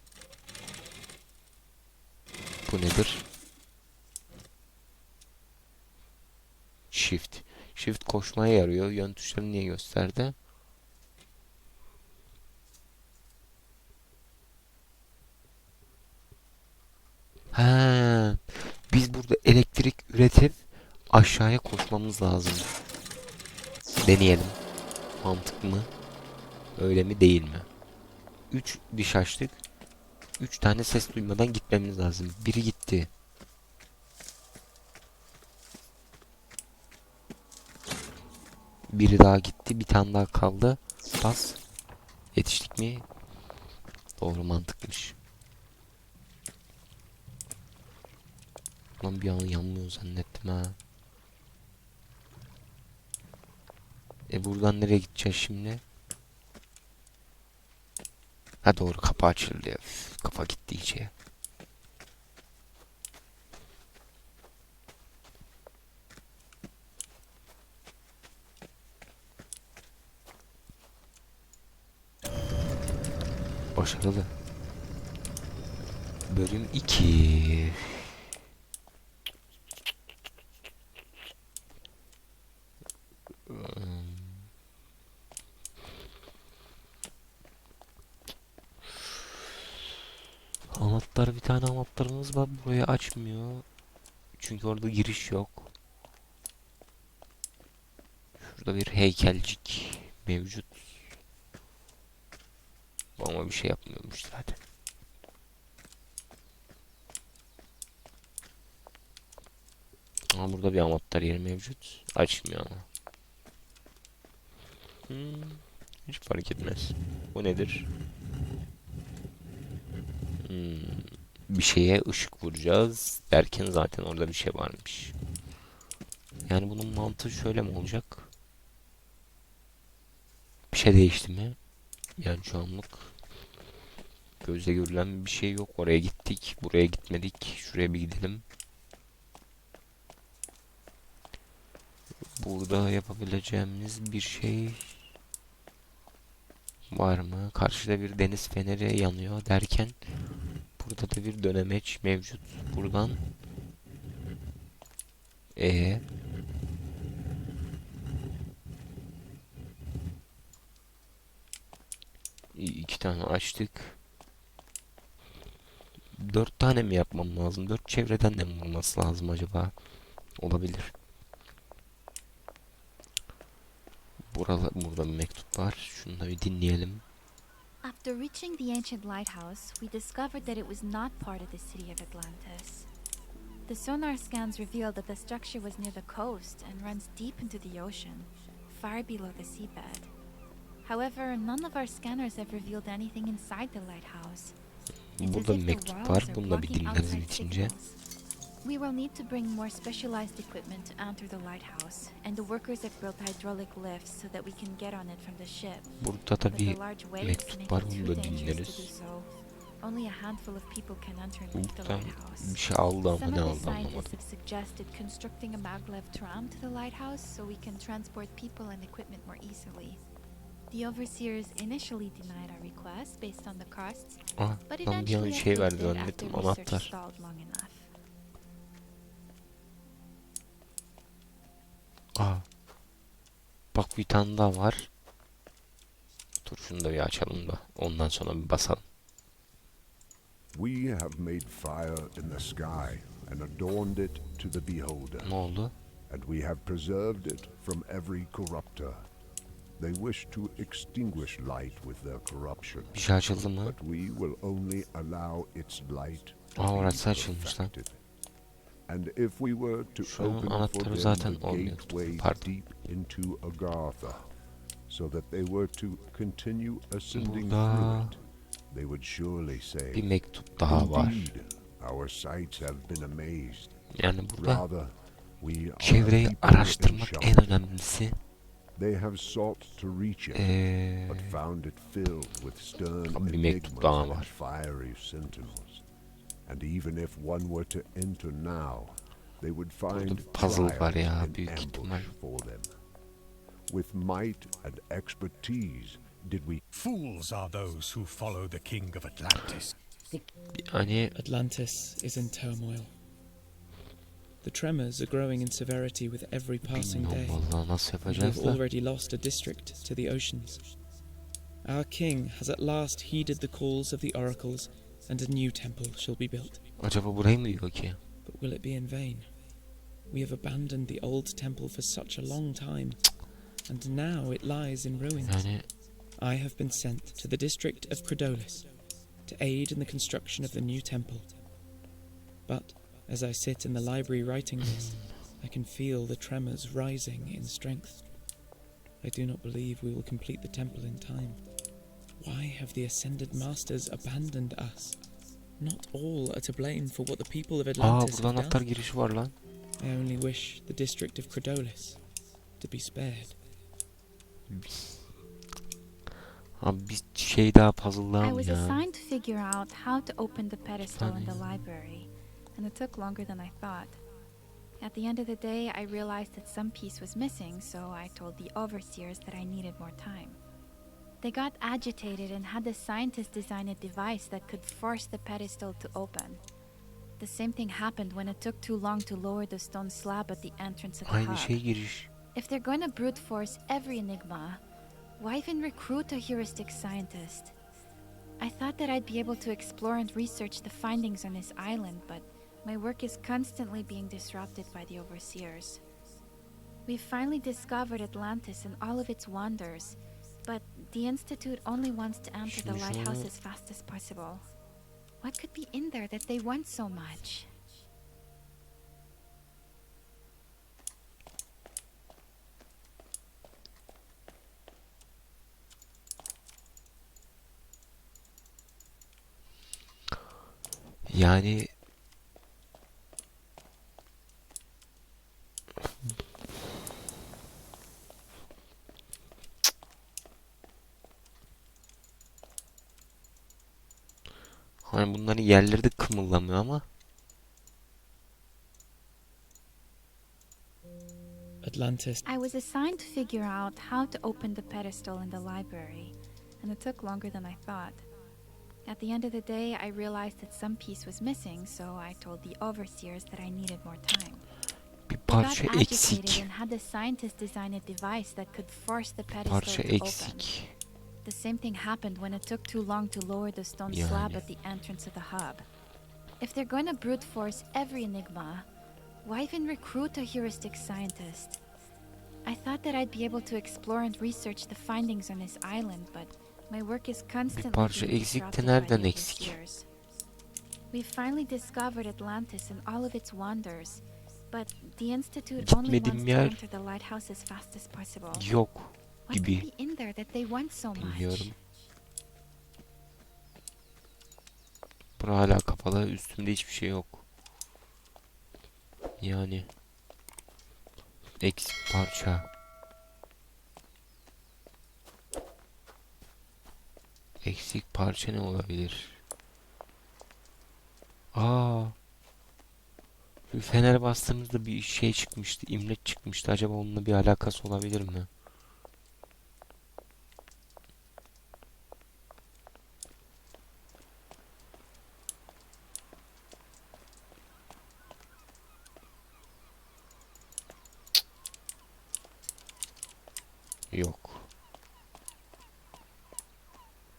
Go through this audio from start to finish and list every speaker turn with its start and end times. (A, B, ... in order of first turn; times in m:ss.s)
0:02.6-0:03.2 A
0:06.9-0:10.3 A
0:17.5-0:22.8 A
0:24.0-0:24.6 A
0:25.2-0:25.9 A
0:26.8-0:27.7 A
0:28.5-0:29.6 A
0:30.4-0:33.1 A
0:38.9-0:41.6 A
0:42.3-0:43.0 A
0:44.2-0:45.2 A
0:49.0-0:50.8 A
0:54.3-0:55.8 A
0:58.6-1:01.1 A
1:13.7-1:14.3 A
1:16.3-1:18.1 A
1:23.5-1:24.5 A
1:30.7-1:33.6 A
1:34.4-1:35.7 A
1:38.4-1:41.1 A
1:43.2-1:44.6 A
1:50.3-1:52.8 A
1:55.1-1:57.9 A
2:00.4-2:05.1 A
2:06.4-2:08.3 A
2:10.7-2:11.6 A
2:12.2-2:13.1 A
2:14.4-2:18.4 A
2:22.4-2:25.0 A
2:26.9-2:30.0 A
2:30.8-2:33.2 A
2:35.6-2:36.0 A
2:42.5-2:44.0 A
2:46.1-2:49.7 A
2:50.4-2:50.9 A
2:54.3-2:57.0 A
2:57.8-3:02.9 B
3:03.7-3:10.1 B
3:10.8-3:14.6 B
3:15.2-3:17.7 A
3:15.2-3:18.0 B
3:18.6-3:26.0 B
3:26.0-3:28.9 A
3:26.5-3:32.6 B
3:31.5-3:34.2 A
3:33.1-3:40.0 B
3:40.7-3:47.9 B
3:44.4-3:46.9 A
3:52.2-3:52.4 A
3:53.7-3:54.9 A
3:56.4-3:58.8 A
4:00.5-4:05.3 C
4:05.2-4:05.7 A
4:06.1-4:09.0 C
4:09.8-4:13.0 C
4:12.9-4:13.8 A
4:13.6-4:18.0 C
4:16.6-4:17.7 A
4:18.9-4:24.3 C
4:20.0-4:22.5 A
4:24.9-4:30.1 C
4:27.1-4:28.2 A
4:29.9-4:31.3 A
4:30.7-4:33.8 C
4:33.9-4:34.6 A
4:34.4-4:37.6 C
4:35.8-4:38.2 A
4:38.8-4:40.5 C
4:40.3-4:41.4 A
4:41.0-4:45.8 C
4:43.1-4:44.3 A
4:46.4-4:52.7 C
4:49.9-4:52.1 A
4:53.7-4:56.6 C
4:56.7-4:59.8 D
5:00.6-5:01.1 A
5:01.1-5:02.9 E
5:04.4-5:07.4 E
5:06.6-5:08.6 A
5:08.0-5:10.7 E
5:11.6-5:16.6 E
5:16.8-5:18.0 A
5:18.2-5:19.3 E
5:20.1-5:28.7 E
5:25.2-5:25.7 A
5:29.2-5:31.3 E
5:32.4-5:38.0 E
5:34.7-5:35.1 A
5:39.0-5:41.4 E
5:42.2-5:45.0 E
5:45.6-5:48.6 E
5:47.8-5:49.3 A
5:49.8-5:52.0 E
5:52.6-5:53.4 E
5:54.5-5:54.9 A
5:56.6-5:58.8 A
5:58.2-6:04.0 B
6:00.9-6:01.6 A
6:04.8-6:10.4 B
6:11.2-6:16.4 B
6:17.2-6:21.6 B
6:21.1-6:22.1 A
6:22.3-6:24.6 B
6:25.2-6:27.5 B
6:28.4-6:35.8 B
6:36.9-6:44.5 B
6:42.4-6:43.3 A
6:45.2-6:47.5 B
7:01.1-7:01.7 A
7:14.8-7:16.8 A
7:21.6-7:22.2 E
7:22.2-7:28.1 B
7:28.8-7:34.5 B
7:35.1-7:36.5 A
7:35.3-7:40.5 B
7:39.4-7:40.7 A
7:41.2-7:45.7 B
7:43.9-7:44.4 A
7:46.4-7:48.7 B
7:49.2-7:51.6 B
7:52.4-7:59.9 B
7:57.5-7:59.6 A
8:00.9-8:08.5 B
8:05.6-8:06.6 A
8:08.3-8:09.6 A
8:09.3-8:11.6 B
8:11.0-8:11.5 A
8:15.2-8:17.2 A
8:19.2-8:19.7 A
8:21.4-8:22.5 A
8:27.4-8:29.2 A
8:31.3-8:32.0 A
8:33.5-8:38.3 A
8:53.9-8:54.5 A